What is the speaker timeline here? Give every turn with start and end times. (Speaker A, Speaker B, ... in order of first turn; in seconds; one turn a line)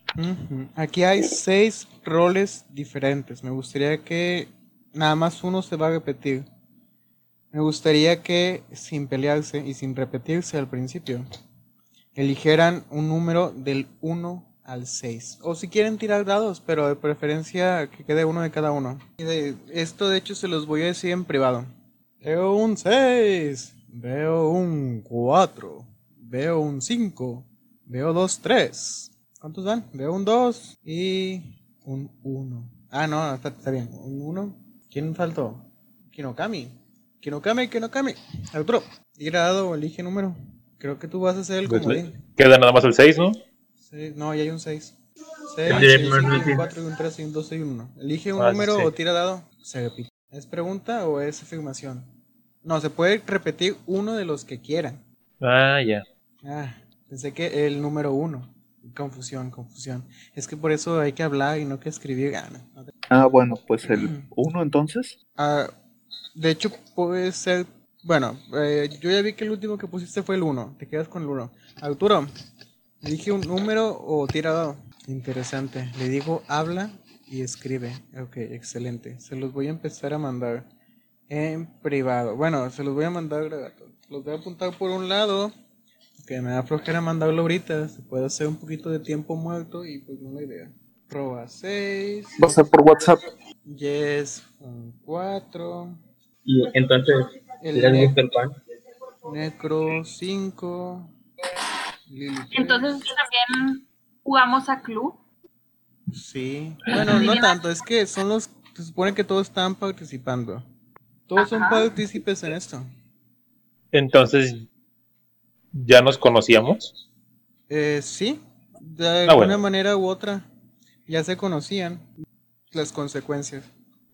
Speaker A: 0.1-6.5
Speaker A: 7.5-11.3
Speaker A: 12.1-21.7
Speaker A: 22.2-42.2
Speaker B: 41.6-43.4
Speaker A: 43.8-44.9
Speaker A: 45.5-52.1
Speaker C: 45.6-46.7
Speaker B: 48.4-48.9
Speaker A: 52.6-55.0
Speaker B: 55.4-56.0
Speaker A: 56.4-62.9
Speaker D: 63.1-65.2
Speaker A: 63.9-64.3
Speaker A: 65.4-65.7
Speaker A: 66.3-72.3
Speaker A: 73.0-80.7
Speaker A: 81.3-85.5
Speaker A: 86.2-92.6
Speaker D: 92.4-93.3
Speaker A: 93.6-96.0
Speaker C: 96.4-98.6
Speaker A: 97.6-98.1
Speaker A: 99.2-101.1
Speaker A: 102.1-103.0
Speaker E: 102.5-105.2
Speaker A: 106.1-110.7
Speaker E: 106.9-107.6
Speaker A: 111.3-112.9
Speaker E: 111.4-111.9
Speaker B: 113.9-114.7
Speaker B: 115.7-116.9
Speaker A: 117.7-120.5
Speaker B: 119.3-119.6
Speaker A: 121.1-122.1
Speaker A: 122.7-123.7